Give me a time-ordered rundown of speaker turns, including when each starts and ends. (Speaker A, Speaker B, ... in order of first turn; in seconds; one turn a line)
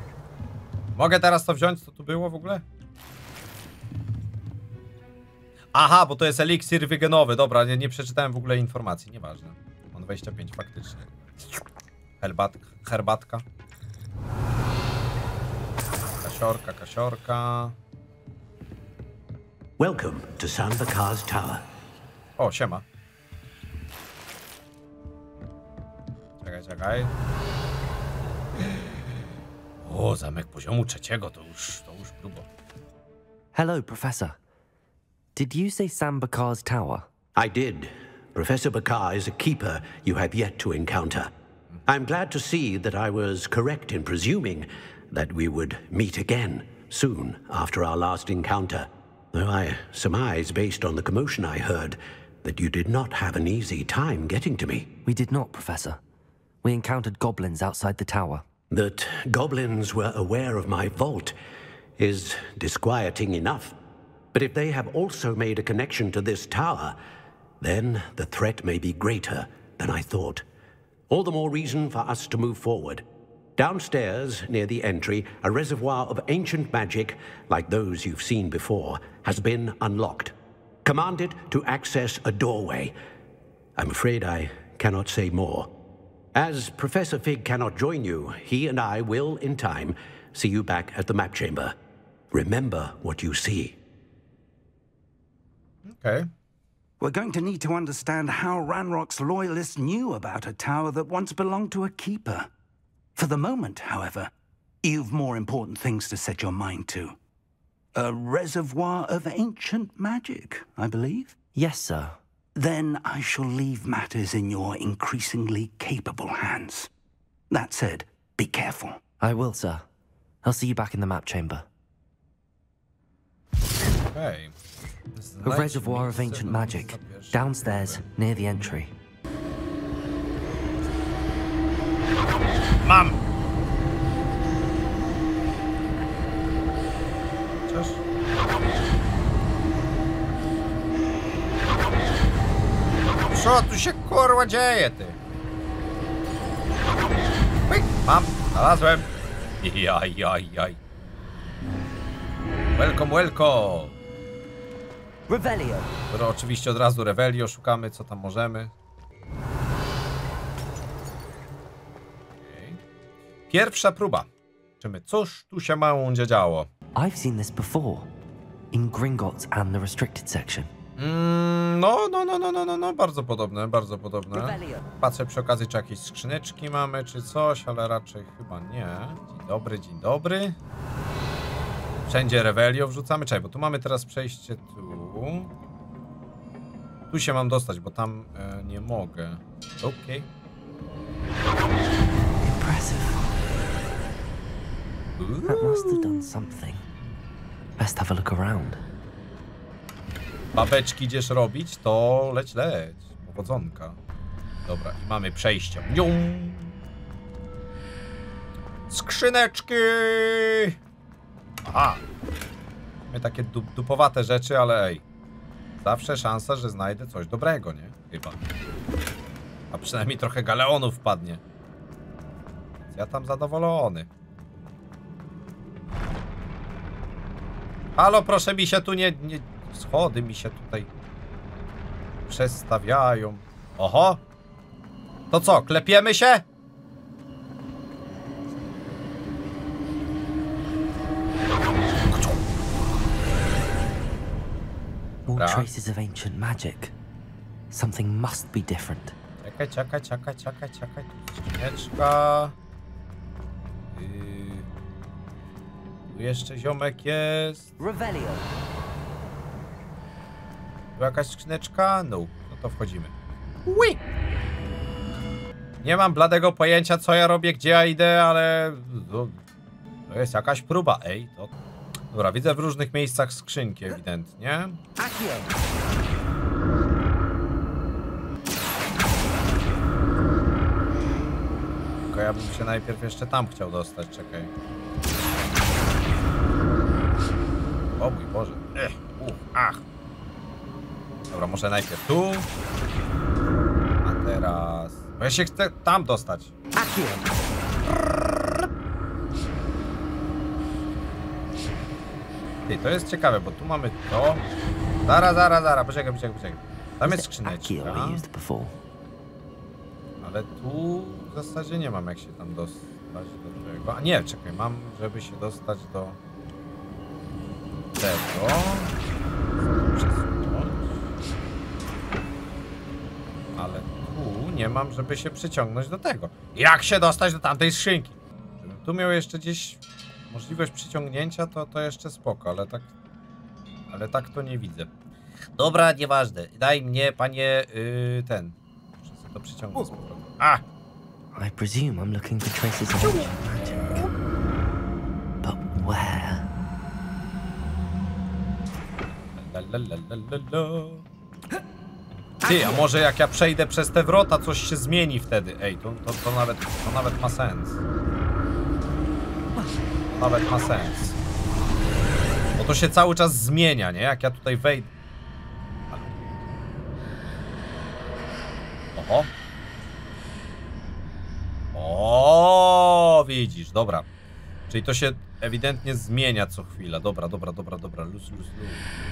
Speaker A: 1.0-2.6
Speaker A: 5.8-11.1
Speaker A: 12.2-13.4
Speaker A: 16.2-17.8
Speaker B: 19.8-21.6
Speaker A: 22.4-22.8
Speaker A: 26.4-27.1
Speaker A: 29.8-32.5
Speaker C: 33.5-34.4
Speaker C: 35.4-37.1
Speaker B: 37.4-41.3
Speaker B: 41.9-54.9
Speaker C: 55.1-56.0
Speaker C: 56.6-58.4
Speaker B: 58.7-61.4
Speaker B: 62.0-63.8
Speaker B: 64.3-67.0
Speaker B: 67.6-70.5
Speaker B: 71.1-73.0
Speaker B: 73.6-83.0
Speaker B: 83.8-85.7
Speaker B: 86.3-91.8
Speaker B: 92.3-93.8
Speaker A: 95.8-96.3
Speaker D: 97.0-102.5
Speaker D: 103.2-104.3
Speaker D: 104.8-107.2
Speaker D: 108.0-111.3
Speaker C: 111.5-112.2
Speaker D: 112.5-116.9
Speaker D: 117.5-119.0
Speaker C: 119.2-119.8
Speaker C: 120.4-121.7
Speaker A: 124.0-124.5
Speaker A: 125.2-128.0
Speaker C: 125.4-128.9
Speaker A: 132.8-133.2
Speaker A: 137.7-138.0
Speaker A: 143.3-145.2
Speaker A: 147.7-149.1
Speaker A: 149.6-150.8
Speaker A: 152.7-153.9
Speaker C: 155.3-155.9
Speaker A: 156.1-158.7
Speaker A: 162.4-162.8
Speaker A: 163.5-164.3
Speaker A: 164.8-166.7
Speaker C: 167.0-168.1
Speaker C: 168.7-170.7
Speaker A: 171.0-180.6
Speaker C: 174.3-174.9
Speaker A: 182.1-185.5
Speaker A: 187.1-190.3
Speaker C: 192.4-193.2
Speaker A: 195.2-196.3
Speaker C: 195.4-196.8
Speaker C: 197.8-198.8
Speaker A: 200.6-204.0
Speaker A: 204.7-206.8
Speaker A: 208.9-210.8
Speaker A: 211.7-212.0
Speaker A: 213.1-215.0
Speaker A: 215.8-218.4
Speaker A: 219.7-221.4
Speaker A: 222.9-224.1
Speaker A: 228.0-230.9
Speaker A: 232.3-234.2
Speaker A: 235.3-236.4
Speaker C: 245.3-246.9
Speaker A: 245.4-245.7
Speaker C: 247.7-249.2
Speaker A: 249.4-252.6
Speaker A: 253.9-254.7
Speaker A: 256.1-257.7
Speaker C: 257.8-258.4
Speaker A: 261.0-263.1
Speaker A: 263.6-264.0
Speaker A: 265.8-269.4
Speaker A: 270.1-271.5
Speaker A: 272.1-274.8
Speaker C: 275.0-275.5
Speaker A: 282.1-284.5
Speaker A: 288.0-289.8
Speaker A: 291.3-292.5
Speaker A: 294.0-296.5
Speaker C: 296.8-297.2
Speaker A: 297.9-298.7
Speaker A: 302.7-304.4
Speaker A: 305.1-308.2
Speaker C: 307.0-308.7
Speaker A: 310.2-316.2
Speaker A: 317.9-318.9
Speaker A: 319.6-321.0
Speaker A: 323.6-332.9
Speaker A: 333.9-334.9
Speaker A: 335.6-340.6
Speaker C: 341.4-344.1
Speaker A: 343.0-343.3
Speaker C: 345.4-346.4
Speaker A: 349.4-351.0
Speaker A: 352.4-357.8
Speaker A: 360.1-361.2
Speaker A: 362.6-364.9
Speaker A: 365.9-366.3
Speaker A: 369.0-369.3
Speaker A: 371.7-374.1
Speaker A: 374.7-378.9